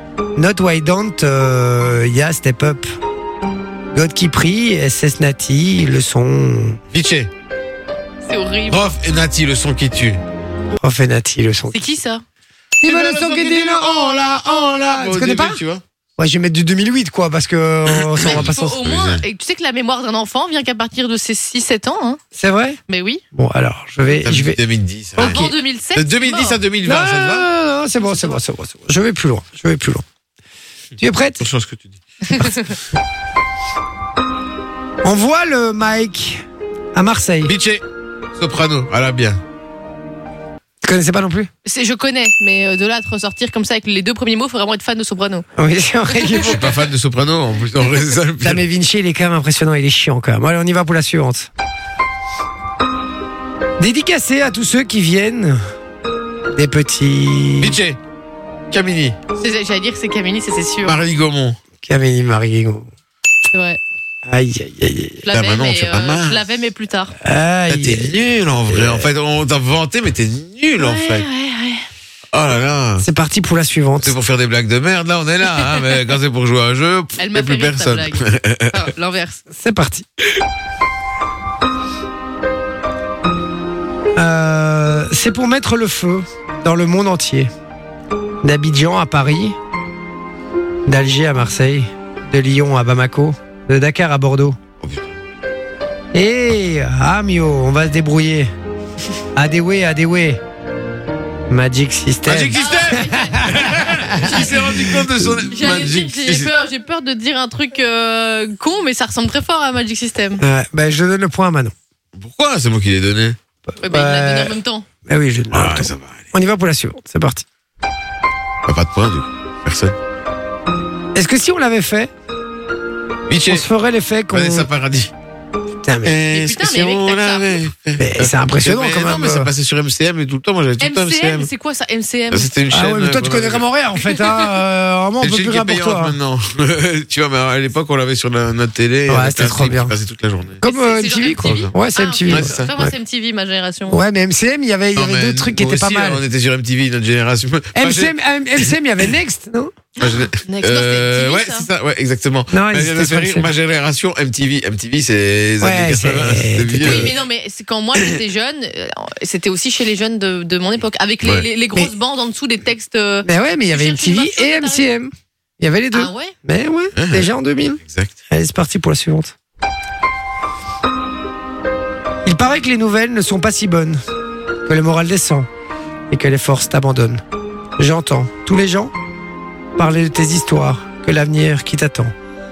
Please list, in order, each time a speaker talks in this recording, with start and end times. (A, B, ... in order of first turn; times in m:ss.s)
0:00.4-0:02.9 A
0:03.9-0:06.8 A
0:06.9-0:07.3 B
0:08.2-0:08.9 C
0:08.7-0:10.2 B
0:10.8-0:11.8 A
0:11.7-0:12.2 C
0:12.8-0:15.6 A
0:12.8-0:15.8 B
0:16.2-0:18.8 A
0:17.9-0:19.2 B
0:18.2-0:22.2 C
0:22.3-0:22.8 A
0:22.9-0:23.2 C
0:23.3-0:24.6 A
0:24.2-0:27.5 B
0:25.2-0:25.5 A
0:25.2-0:26.6 C
0:26.8-0:30.0 A
0:28.0-0:28.4 C
0:31.0-0:31.5 A
0:31.4-0:32.0 B
0:32.2-0:32.7 C
0:35.0-0:36.4 A
0:36.9-0:37.5 A
0:37.4-0:37.8 B
0:38.4-0:39.4 B
0:40.8-0:41.5 A
0:41.6-0:45.4 C
0:45.6-0:46.7 A
0:46.1-0:46.4 C
0:46.3-0:48.6 B
0:48.4-0:51.5 A
0:53.8-0:55.6 A
0:56.5-0:57.8 A
0:57.6-0:58.0 B
0:58.7-0:59.2 B
0:59.4-1:01.0 C
1:00.8-1:01.6 B
1:01.8-1:02.9 A
1:03.5-1:03.8 C
1:04.2-1:05.2 A
1:05.2-1:07.1 C
1:05.3-1:06.4 B
1:07.2-1:08.2 A
1:07.7-1:11.2 B
1:08.7-1:09.1 A
1:10.8-1:11.8 C
1:12.3-1:13.0 B
1:13.0-1:14.1 A
1:14.0-1:18.9 B
1:15.6-1:15.8 C
1:17.2-1:19.4 C
1:19.5-1:20.0 A
1:24.1-1:27.5 A
1:28.4-1:29.6 A
1:30.8-1:34.6 A
1:34.8-1:35.1 B
1:36.1-1:38.5 A
1:39.3-1:40.4 A
1:41.5-1:45.4 A
1:42.2-1:46.5 B
1:42.5-1:44.7 C
1:45.4-1:50.4 C
1:50.4-1:51.7 A
1:52.1-1:53.4 B
1:53.7-1:57.4 A
1:53.8-1:54.9 C
1:55.5-1:56.2 B
1:58.6-2:00.0 B
2:01.1-2:02.1 A
2:03.3-2:03.7 B
2:03.5-2:04.7 A
2:04.3-2:05.1 B
2:05.8-2:06.2 A
2:06.0-2:11.5 B
2:06.3-2:07.6 C
2:08.0-2:09.5 A
2:10.8-2:12.5 C
2:12.3-2:13.6 B
2:12.7-2:16.2 A
2:15.2-2:20.6 B
2:19.1-2:20.0 A
2:20.6-2:22.9 A
2:20.6-2:24.0 C
2:21.3-2:21.7 B
2:22.3-2:22.7 B
2:23.9-2:26.2 A
2:24.9-2:28.1 B
2:27.7-2:29.7 A
2:30.0-2:31.7 C
2:30.0-2:37.2 B
2:32.5-2:33.5 A
2:35.6-2:37.1 A
2:36.8-2:44.9 C
2:43.2-2:49.3 A
2:45.9-2:46.3 C
2:46.9-2:47.3 B
2:52.2-2:54.0 A
2:54.6-2:55.5 A
2:56.1-2:57.2 A
2:57.8-2:58.9 A
2:59.8-3:02.1 A